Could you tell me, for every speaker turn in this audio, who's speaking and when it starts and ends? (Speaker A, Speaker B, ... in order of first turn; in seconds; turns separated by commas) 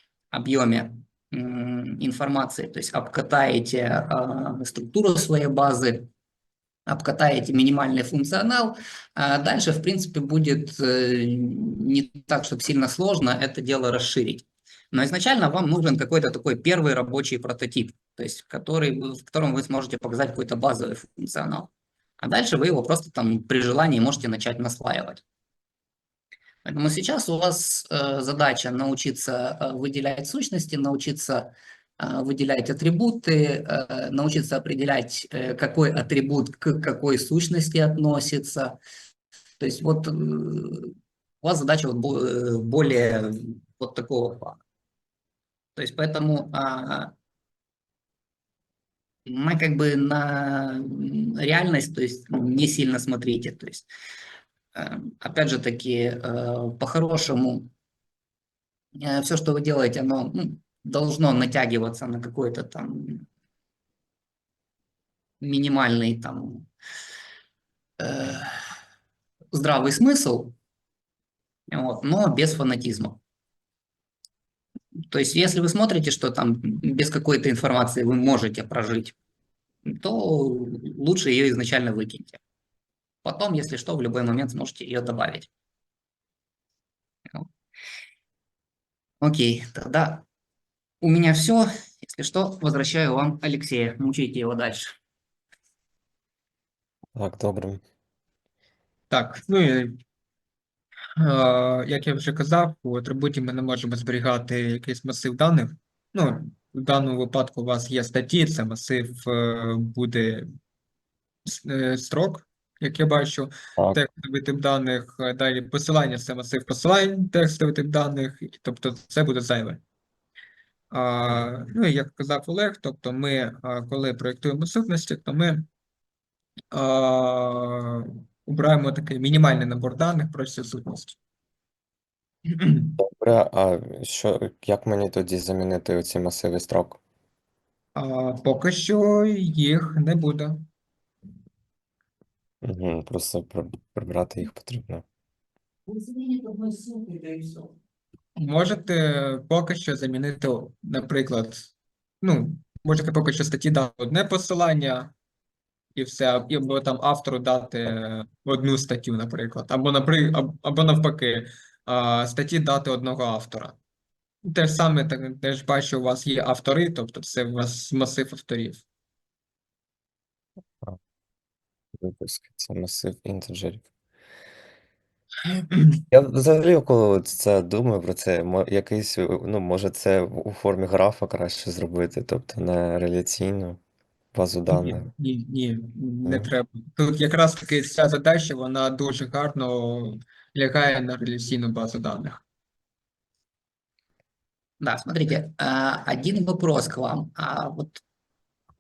Speaker A: 0.3-6.1, Speaker A: 6.9-21.7, Speaker A: 22.2-25.2, Speaker A: 26.6-38.8, Speaker A: 39.6-44.6, Speaker A: 45.8-47.1, Speaker A: 49.3-53.9, Speaker A: 54.8-57.7, Speaker A: 59.0-63.3, Speaker A: 65.4-66.7, Speaker A: 68.0-68.6, Speaker A: 69.5-70.5, Speaker A: 71.7-73.2, Speaker A: 75.1-79.2, Speaker A: 79.9-82.4, Speaker A: 83.2-85.5, Speaker A: 89.2-90.2, Speaker A: 91.0-95.0, Speaker B: 97.2-97.8, Speaker C: 99.1-100.0, Speaker C: 101.2-110.5, Speaker C: 111.5-119.8, Speaker C: 120.9-125.7, Speaker C: 126.7-131.2, Speaker C: 132.5-132.9, Speaker B: 133.0-137.0, Speaker C: 137.9-140.6, Speaker B: 142.6-145.1, Speaker A: 146.0-147.7, Speaker C: 148.4-151.7, Speaker C: 152.2-155.1, Speaker C: 155.9-163.8, Speaker C: 164.4-168.8, Speaker B: 172.0-173.8, Speaker B: 176.1-183.8, Speaker B: 184.3-185.1, Speaker C: 184.7-192.4, Speaker B: 186.2-186.5, Speaker A: 194.8-198.0